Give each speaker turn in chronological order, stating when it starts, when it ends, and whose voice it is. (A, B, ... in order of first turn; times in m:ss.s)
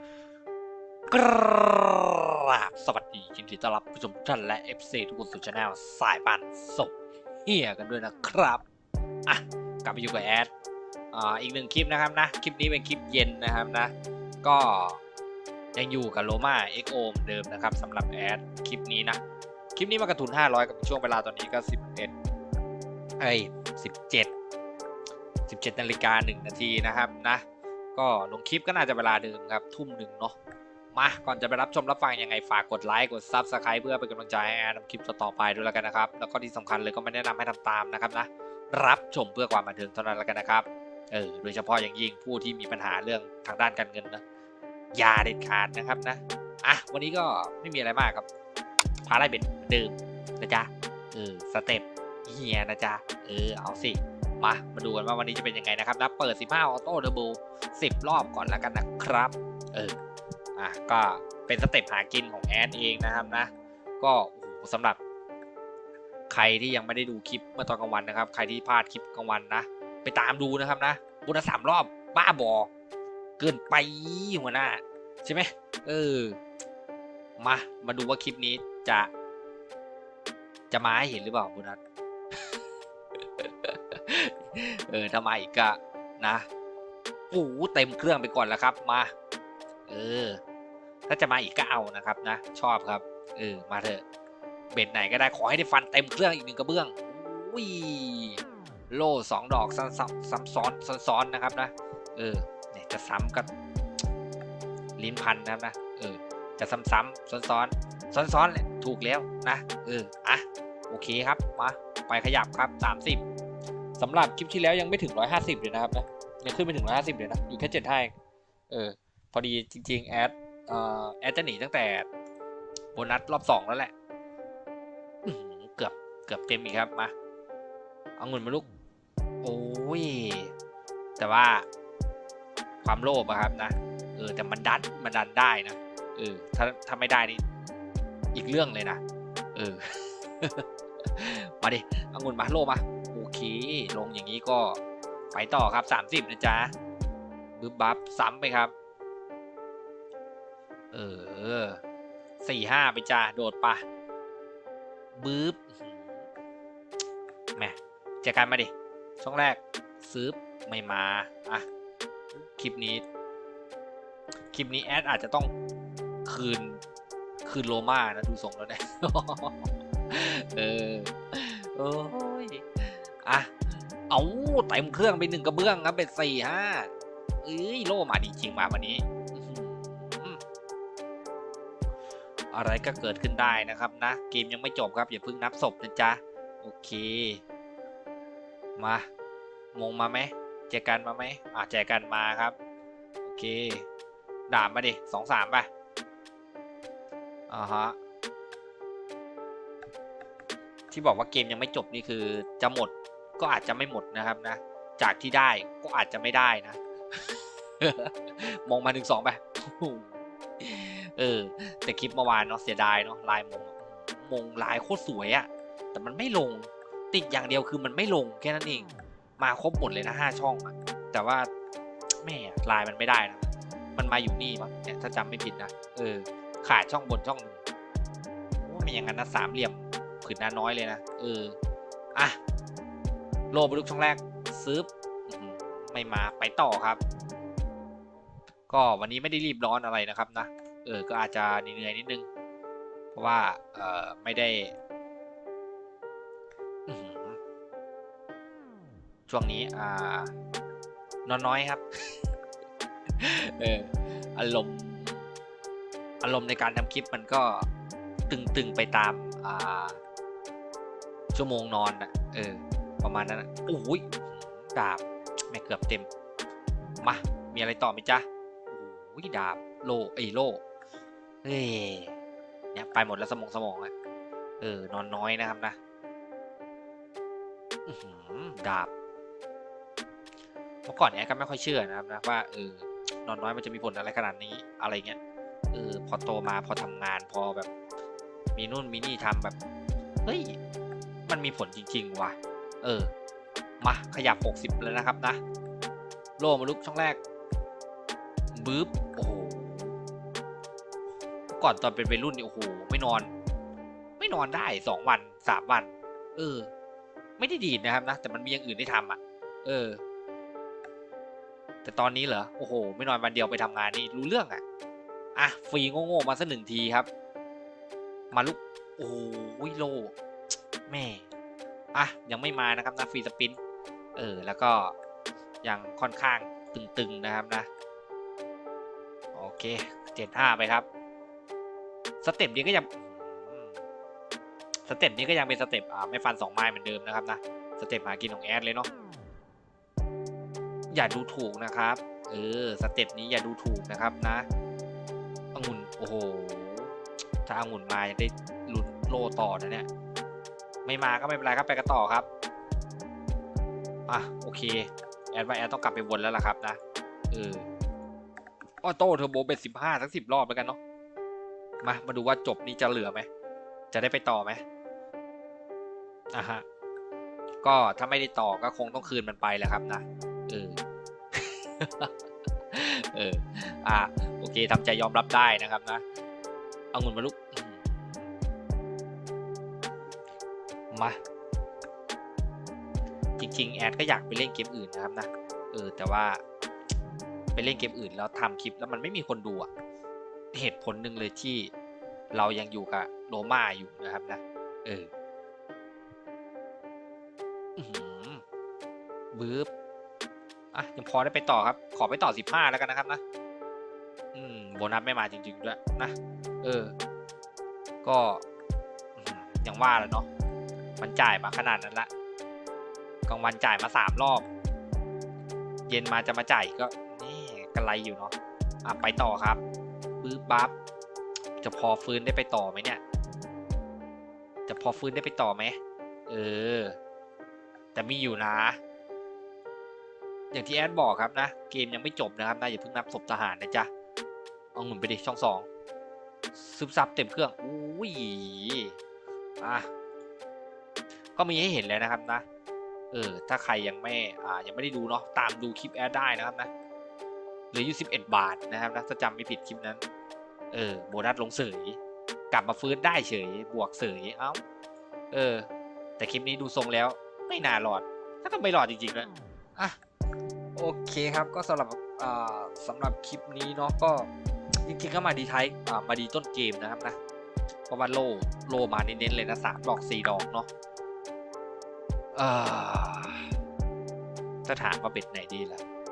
0:01.1-0:08.6 A
0:09.2-0:10.5 A
0:11.1-0:15.0 A
0:15.7-0:19.2 A
0:19.7-0:22.1 A
0:23.2-0:24.3 A
0:25.4-0:27.4 A
0:27.9-0:30.4 A
0:30.9-0:44.2 A
0:44.9-0:48.2 A
0:49.0-1:00.0 A
1:00.6-1:05.0 A
1:06.3-1:12.7 A
1:13.4-1:16.4 A
1:17.4-1:19.1 A
1:20.7-1:21.8 A
1:23.4-1:26.4 A
1:27.3-1:29.1 A
1:29.9-1:30.4 A
1:31.1-1:34.0 A
1:34.7-1:38.4 A
1:38.9-1:43.5 A
1:45.0-1:53.2 A
1:54.0-1:58.1 A
1:58.7-2:02.1 A
2:02.9-2:03.9 A
2:05.2-2:07.1 A
2:08.2-2:08.7 A
2:09.4-2:10.5 A
2:11.2-2:11.6 A
2:12.8-2:17.4 A
2:18.3-2:19.0 A
2:19.5-2:20.6 A
2:21.2-2:24.8 A
2:25.3-2:26.7 A
2:27.6-2:28.7 A
2:30.9-2:31.8 A
2:32.4-2:33.8 A
2:35.1-2:36.0 A
2:37.6-2:41.6 A
2:42.3-2:43.0 A
2:44.5-2:45.5 A
2:46.2-2:46.8 A
2:47.4-2:56.9 A
2:57.4-3:00.4 A
3:02.5-3:07.4 A
3:08.8-3:09.0 A
3:09.7-3:12.5 A
3:13.2-3:13.8 A
3:14.5-3:15.7 A
3:17.5-3:18.0 A
3:20.9-3:26.8 A
3:27.8-3:41.5 A
3:42.2-3:47.6 A
3:48.6-3:51.6 A
3:53.5-3:57.0 A
3:58.7-4:02.2 A
4:03.1-4:04.7 A
4:06.9-4:07.4 A
4:09.3-4:10.3 A
4:11.2-4:11.8 A
4:13.2-4:15.2 A
4:16.2-4:17.7 A
4:18.3-4:20.0 A
4:21.3-4:26.1 A
4:27.0-4:30.6 A
4:31.4-4:32.1 A
4:32.7-4:33.9 A
4:34.6-4:35.8 A
4:37.8-4:38.9 A
4:40.8-4:45.2 A
4:45.7-4:47.7 A
4:48.5-4:49.6 A
4:50.2-4:50.6 A
4:51.3-4:53.1 A
4:53.8-4:55.4 A
4:56.4-4:57.2 A
4:58.5-5:00.0 A
5:01.5-5:03.3 A
5:04.2-5:06.7 A
5:07.4-5:10.0 A
5:11.8-5:14.6 A
5:15.3-5:17.1 A
5:18.3-5:20.1 A
5:20.9-5:21.3 A
5:21.9-5:23.6 A
5:24.1-5:25.0 A
5:25.6-5:27.7 A
5:29.3-5:30.9 A
5:32.2-5:33.0 A
5:34.8-5:38.9 A
5:40.9-5:44.4 A
5:45.5-5:49.9 A
5:50.8-5:52.3 A
5:54.1-5:56.8 A
5:57.3-5:57.7 A
5:58.8-6:00.8 A
6:01.8-6:03.3 A
6:03.9-6:04.6 A
6:06.3-6:06.6 A
6:07.6-6:10.8 A
6:11.3-6:12.1 A
6:12.7-6:16.0 A
6:16.9-6:17.9 A
6:20.9-6:21.2 A
6:23.4-6:26.4 A
6:27.5-6:29.7 A
6:30.5-6:31.7 A
6:32.3-6:35.1 A
6:37.8-6:38.4 A
6:39.3-6:39.7 A
6:40.7-6:43.2 A
6:44.3-6:46.9 A
6:48.0-6:48.4 A
6:49.2-6:50.3 A
6:51.0-6:52.1 A
6:53.3-6:54.5 A
6:55.9-6:59.6 A
7:00.2-7:00.7 A
7:01.6-7:03.0 A
7:04.6-7:07.0 A
7:07.9-7:08.8 A
7:10.5-7:13.9 A
7:14.7-7:15.7 A
7:16.5-7:18.9 A
7:19.6-7:19.9 A
7:21.3-7:22.4 A
7:23.1-7:26.7 A
7:27.7-7:30.0 A
7:30.7-7:32.0 A
7:32.5-7:34.6 A
7:35.3-7:40.0 A
7:40.8-7:44.3 A
7:44.8-7:47.2 A
7:47.9-7:50.7 A
7:52.3-7:53.5 A
7:54.6-7:55.8 A